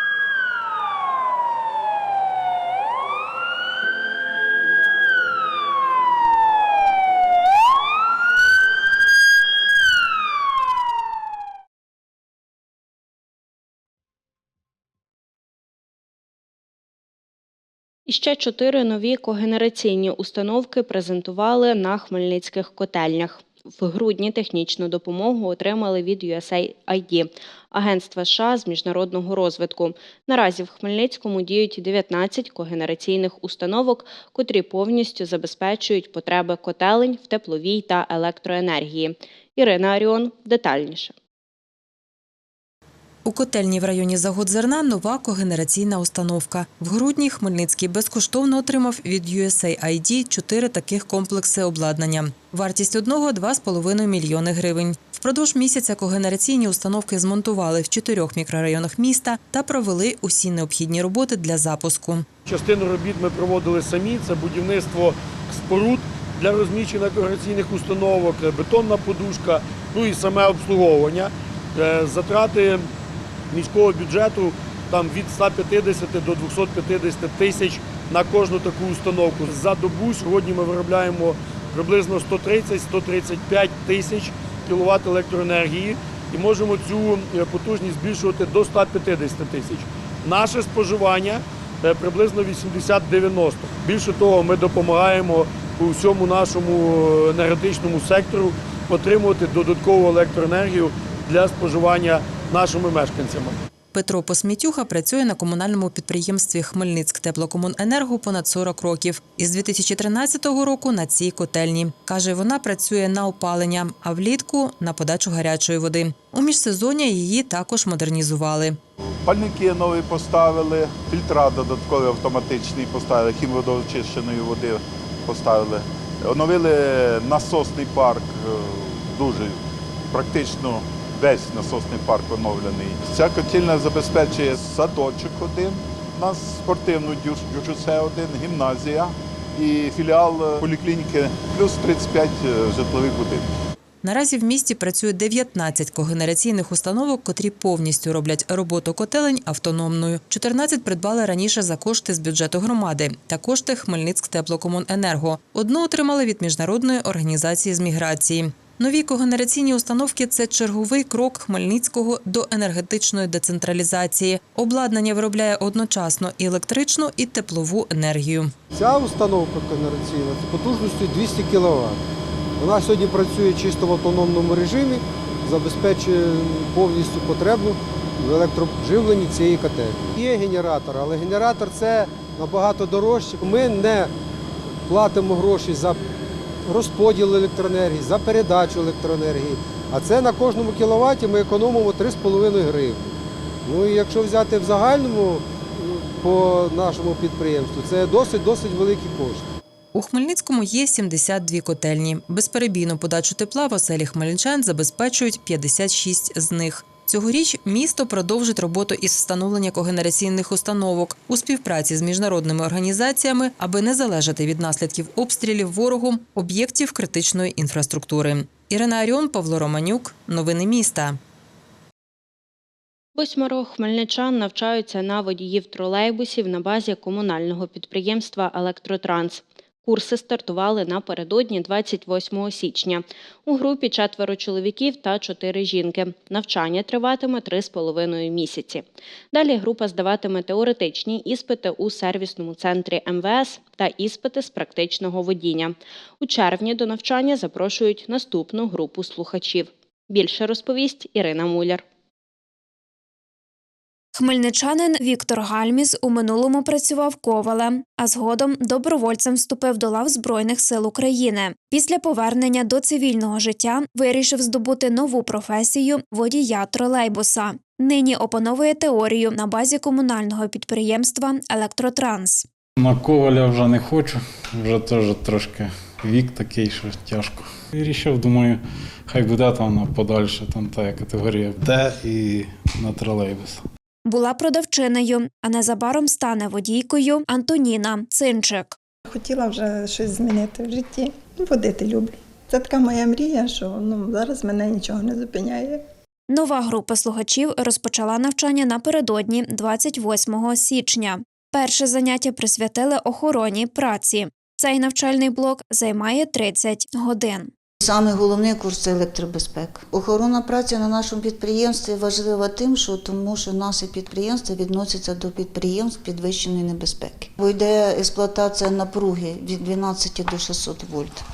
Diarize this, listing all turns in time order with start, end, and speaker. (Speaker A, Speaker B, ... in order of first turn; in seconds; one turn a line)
Speaker A: 18.1-41.1
Speaker B: 43.2-62.2
Speaker C: 62.5-72.8
Speaker C: 73.5-103.5
Speaker B: 103.9-118.8
Speaker D: 119.2-129.6
Speaker D: 130.1-143.5
Speaker B: 144.0-168.5
Speaker E: 168.7-172.0
Speaker E: 172.6-184.1
Speaker E: 184.9-186.0
Speaker E: 186.7-193.1
Speaker E: 193.7-199.5
Speaker B: 199.9-221.2
Speaker A: 223.2-251.8
Speaker F: 254.1-272.4
Speaker G: 272.8-283.6
Speaker F: 284.1-288.7
Speaker H: 289.1-295.8
Speaker F: 296.3-307.5
Speaker I: 307.8-321.2